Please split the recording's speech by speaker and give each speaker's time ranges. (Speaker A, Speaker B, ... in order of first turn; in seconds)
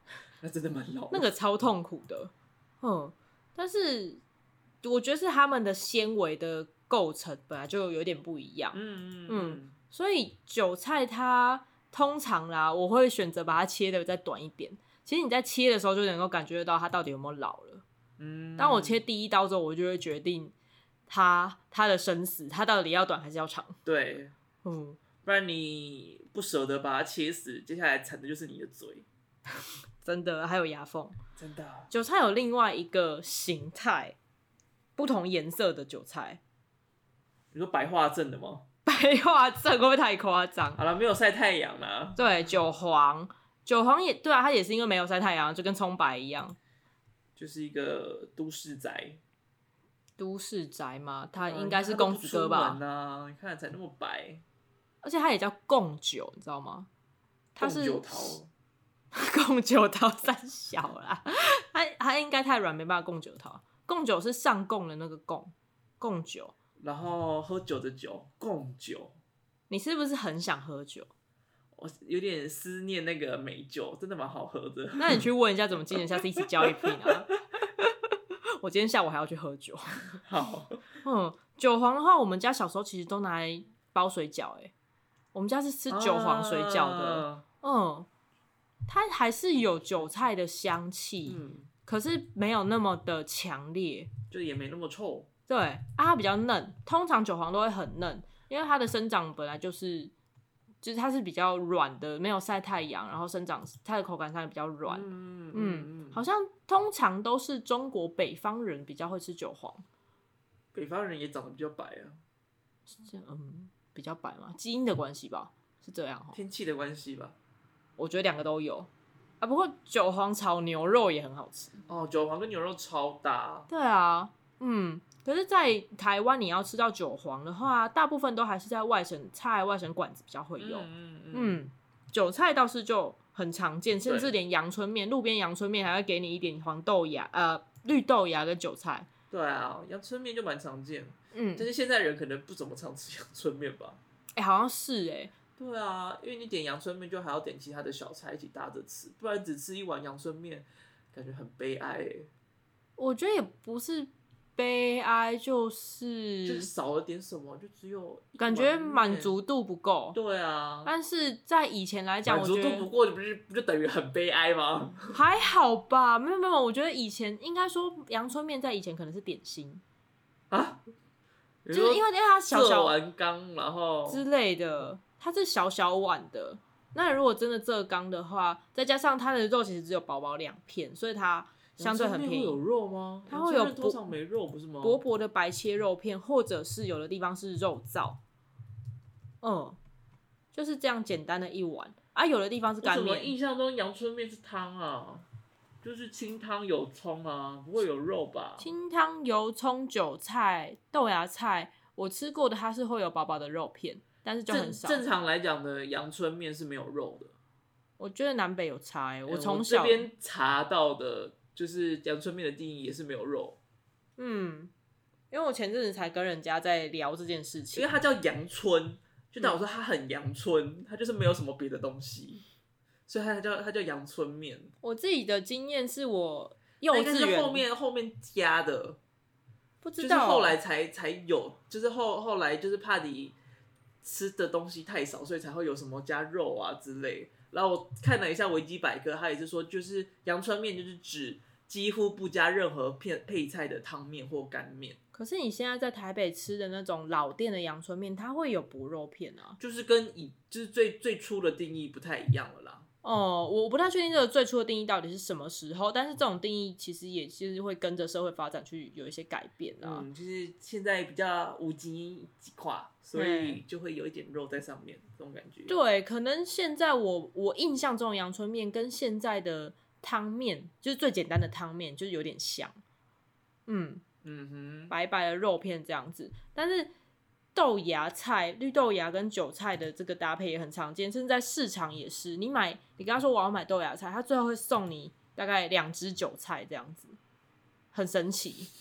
Speaker A: 0.4-1.3, 8.7-9.7, 18.2-19.0, 23.8-24.3, 25.2-29.1, 31.4-31.9, 37.5-38.6, 40.8-42.3, 47.4-49.2, 51.4-54.4, 57.6-58.5, 66.8-69.1, 71.8-75.2, 75.9-76.9, 80.2-80.8, 85.9-87.4, 91.3-91.7, 94.3-95.3, 104.9-106.2, 110.7-112.2, 116.3-117.3, 121.9-123.7, 130.6-131.6, 134.0-134.3, 139.3-144.0, 145.6-152.3, 156.4-159.3, 160.1-160.9, 162.2-165.2, 170.5-170.8, 171.6-174.2, 181.8-185.0, 192.8-195.2, 195.8-198.7, 204.5-207.3, 209.3-213.6, 217.7-222.4, 223.1-224.7, 226.9-229.0, 230.0-233.4, 234.0-245.0, 249.6-252.8, 259.8-265.8, 274.2-274.9
Speaker B: 1.1-4.2, 4.8-17.8, 18.6-20.5, 21.1-23.8, 24.6-25.0, 30.0-31.2, 31.9-34.1, 35.0-36.4, 38.9-40.8, 42.2-46.6, 50.2-52.8, 55.0-56.9, 57.5-58.4, 59.1-66.5, 69.7-71.1, 75.0-80.0, 81.0-84.7, 85.3-88.1, 88.9-94.1, 95.5-100.1, 100.8-109.8, 112.9-116.4, 118.0-121.8, 123.7-139.1, 141.3-141.7, 144.3-145.3, 153.0-156.7, 158.4-160.2, 160.8-162.9, 165.1-169.8, 171.7-172.9, 174.1-182.6, 183.3-184.1, 184.8-188.2, 189.4-189.8, 190.5-193.3, 198.6-205.0, 208.0-210.1, 214.2-214.7, 215.3-217.9, 224.8-227.6, 229.8-230.6, 245.1-249.6, 253.0-260.0, 263.1-263.6, 265.7-272.8, 273.7-274.0, 274.9-276.9, 277.5-287.2, 287.9-288.7